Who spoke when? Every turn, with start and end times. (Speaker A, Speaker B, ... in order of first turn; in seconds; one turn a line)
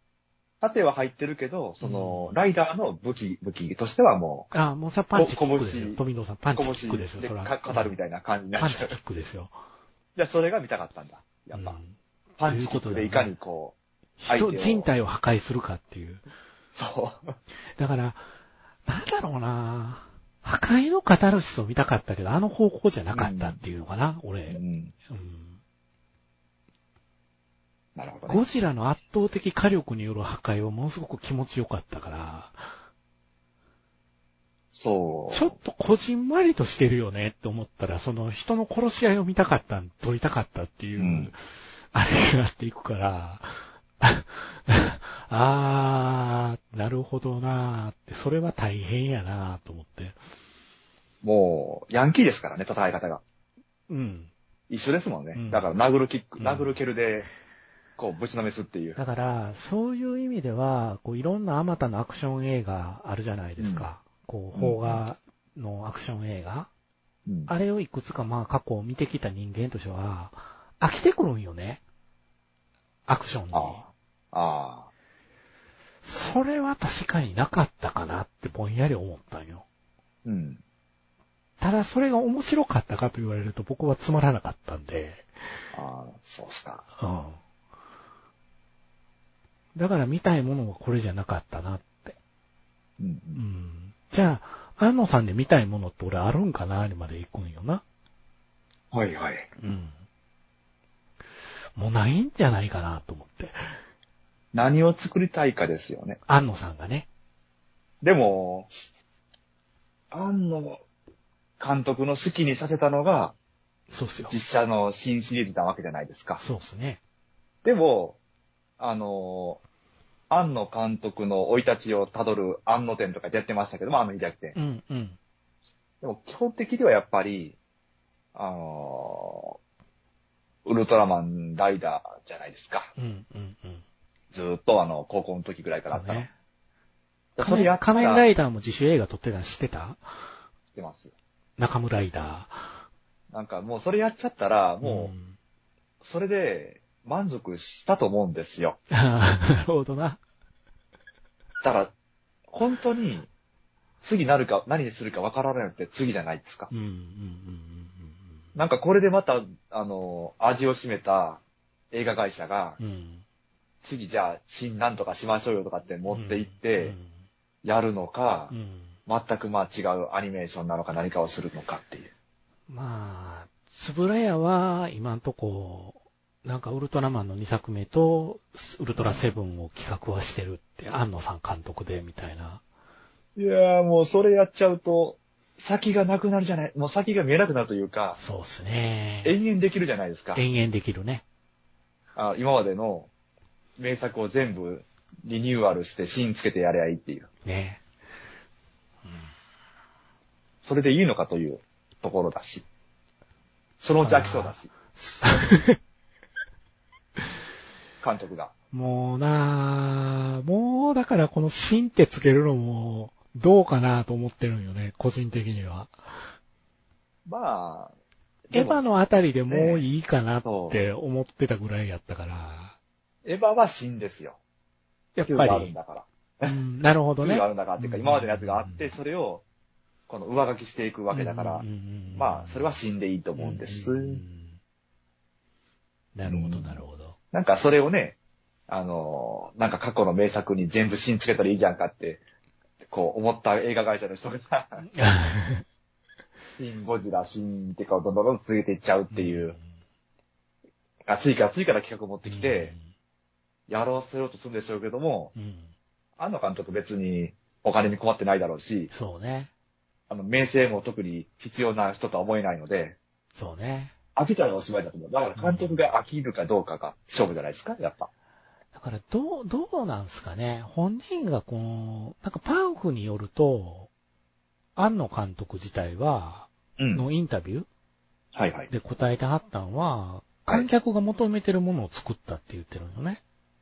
Speaker A: 0.6-4.5
Speaker B: 1.8-2.4
Speaker B: 4.5-7.9
Speaker A: 5.1-6.0
Speaker A: 6.5-8.9
Speaker B: 8.6-9.5
Speaker A: 10.2-11.8
Speaker B: 11.5-13.3
Speaker A: 12.4-13.8
Speaker B: 14.2-16.2
Speaker A: 14.3-14.9
Speaker A: 16.7-17.3
Speaker B: 17.8-18.3
Speaker B: 18.9-25.6
Speaker A: 23.1-23.6
Speaker A: 24.5-24.9
Speaker A: 27.9-28.4
Speaker B: 28.3-32.7
Speaker A: 34.7-35.5
Speaker B: 35.3-41.4
Speaker A: 41.0-41.3
Speaker B: 41.9-50.2
Speaker A: 51.2-53.2
Speaker B: 53.9-54.3
Speaker A: 54.7-57.3
Speaker B: 55.3-55.6
Speaker B: 56.4-56.8
Speaker A: 58.0-59.0
Speaker B: 59.0-66.7
Speaker A: 63.6-63.9
Speaker A: 64.5-65.0
Speaker A: 67.2-67.5
Speaker B: 67.5-71.8
Speaker B: 73.1-73.8
Speaker A: 73.5-74.9
Speaker B: 76.0-79.6
Speaker A: 80.2-80.6
Speaker B: 81.6-85.3
Speaker A: 85.7-86.8
Speaker B: 87.0-87.4
Speaker B: 89.7-92.2
Speaker A: 93.0-93.4
Speaker B: 93.3-97.8
Speaker A: 98.9-99.5
Speaker B: 99.6-100.0
Speaker B: 101.8-103.5
Speaker A: 104.5-106.2
Speaker B: 106.3-107.1
Speaker A: 108.0-108.7
Speaker A: 110.1-110.8
Speaker A: 111.6-113.3
Speaker B: 113.9-114.4
Speaker A: 114.3-116.4
Speaker B: 116.4-117.0
Speaker A: 117.6-118.2
Speaker A: 118.8-119.6
Speaker A: 120.3-124.5
Speaker B: 124.5-125.2
Speaker A: 126.0-127.6
Speaker A: 128.3-129.6
Speaker A: 130.6-132.9
Speaker B: 133.0-133.8
Speaker A: 134.3-136.2
Speaker B: 135.9-136.3
Speaker A: 137.4-138.3
Speaker B: 137.4-140.0
Speaker A: 140.7-141.1
Speaker B: 141.6-142.8
Speaker A: 143.3-145.1
Speaker B: 144.8-145.4
Speaker A: 146.0-148.8
Speaker B: 148.9-150.2
Speaker A: 151.6-151.9
Speaker A: 152.5-153.3
Speaker A: 154.0-156.7
Speaker B: 156.7-158.4
Speaker A: 158.5-161.4
Speaker A: 161.9-162.8
Speaker B: 162.8-163.2
Speaker A: 163.8-166.9
Speaker B: 166.1-167.1
Speaker A: 167.6-168.5
Speaker B: 168.5-168.9
Speaker A: 169.1-172.1
Speaker B: 172.7-182.6
Speaker A: 179.0-179.2
Speaker A: 183.4-188.2
Speaker B: 188.2-189.4
Speaker A: 189.2-190.4
Speaker B: 190.4-191.2
Speaker A: 192.2-193.1
Speaker A: 193.8-197.3
Speaker B: 197.4-197.8
Speaker A: 200.6-202.6
Speaker A: 203.8-204.7
Speaker B: 204.0-205.8
Speaker A: 208.0-208.5
Speaker B: 208.7-215.9
Speaker A: 217.2-217.9
Speaker A: 218.5-218.8
Speaker B: 218.5-222.8
Speaker A: 219.5-219.8
Speaker A: 220.4-220.8
Speaker A: 223.2-224.4
Speaker B: 225.1-225.7
Speaker A: 225.2-226.5
Speaker B: 226.4-228.9
Speaker A: 227.2-229.4
Speaker A: 230.1-231.6
Speaker B: 231.1-232.8
Speaker A: 232.1-234.2
Speaker B: 233.4-234.6
Speaker B: 236.1-237.1
Speaker A: 236.3-236.8
Speaker A: 237.3-238.2
Speaker A: 238.7-242.2
Speaker A: 242.9-244.8
Speaker B: 244.8-245.6
Speaker A: 246.6-249.5
Speaker B: 249.1-249.6
Speaker A: 251.1-252.7
Speaker B: 252.2-252.9
Speaker A: 253.7-255.3
Speaker B: 255.3-255.7
Speaker A: 256.2-258.9
Speaker B: 258.9-259.5
Speaker A: 260.1-262.9
Speaker B: 263.3-263.9
Speaker A: 264.1-268.1
Speaker B: 265.4-265.9
Speaker B: 268.7-273.9
Speaker B: 274.8-277.7
Speaker A: 276.8-277.1
Speaker A: 278.3-278.7
Speaker B: 278.7-283.2